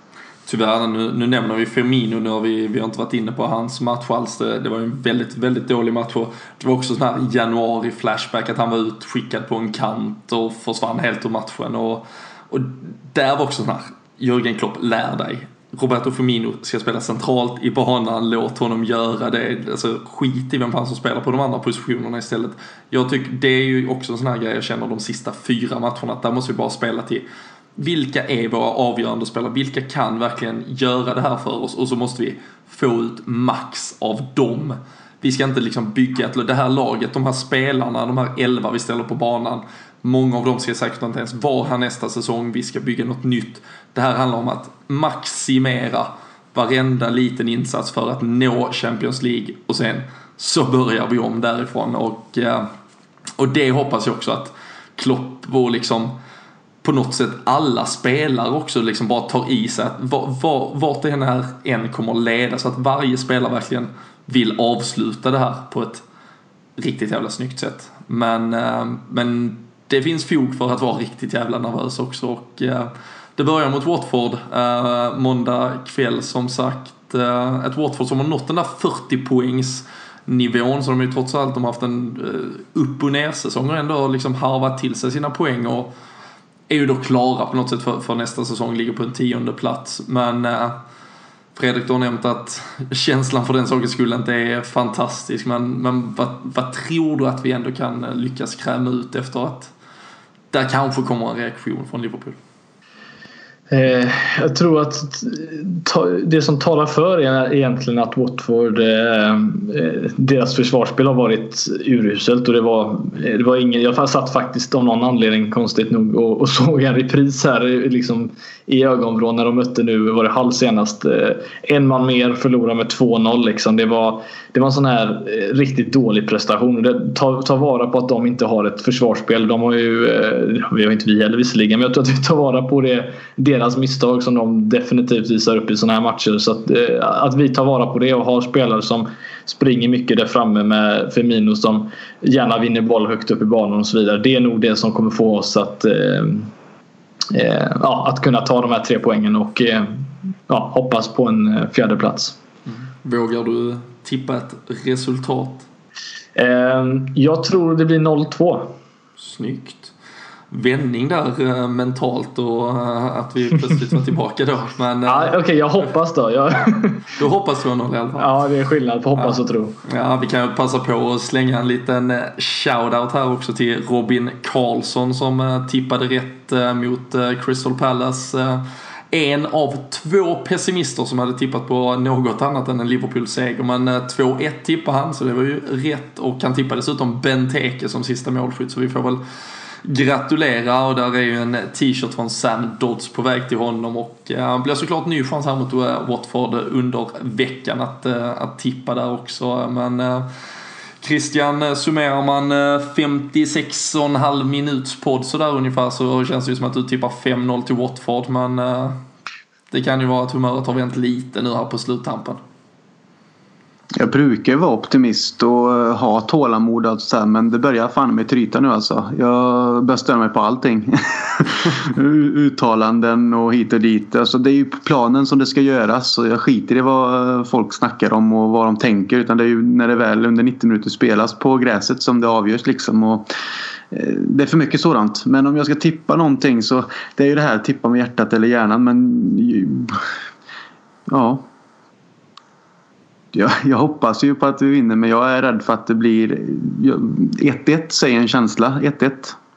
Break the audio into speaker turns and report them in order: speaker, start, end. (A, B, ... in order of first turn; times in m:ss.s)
0:00.5-0:27.2 A
0:27.8-0:52.7 A
0:53.4-0:56.2 A
0:56.8-1:06.0 A
1:06.8-1:25.9 A
1:26.7-1:30.8 A
1:31.6-1:39.7 A
1:40.5-1:42.4 A
1:43.7-2:26.5 B
2:27.3-2:32.4 B
2:32.7-2:35.7 A
2:36.4-2:38.8 B
2:39.2-2:39.9 A
2:40.5-2:45.4 A
2:45.1-2:47.2 B
2:46.7-2:48.3 A
2:48.2-2:49.8 B
2:49.2-3:09.2 A
3:09.8-3:20.3 A
3:21.0-3:29.0 A
3:29.7-3:32.4 A
3:34.0-3:53.2 C
3:53.9-4:00.1 C
4:01.1-4:01.4 C
4:03.3-4:09.4 C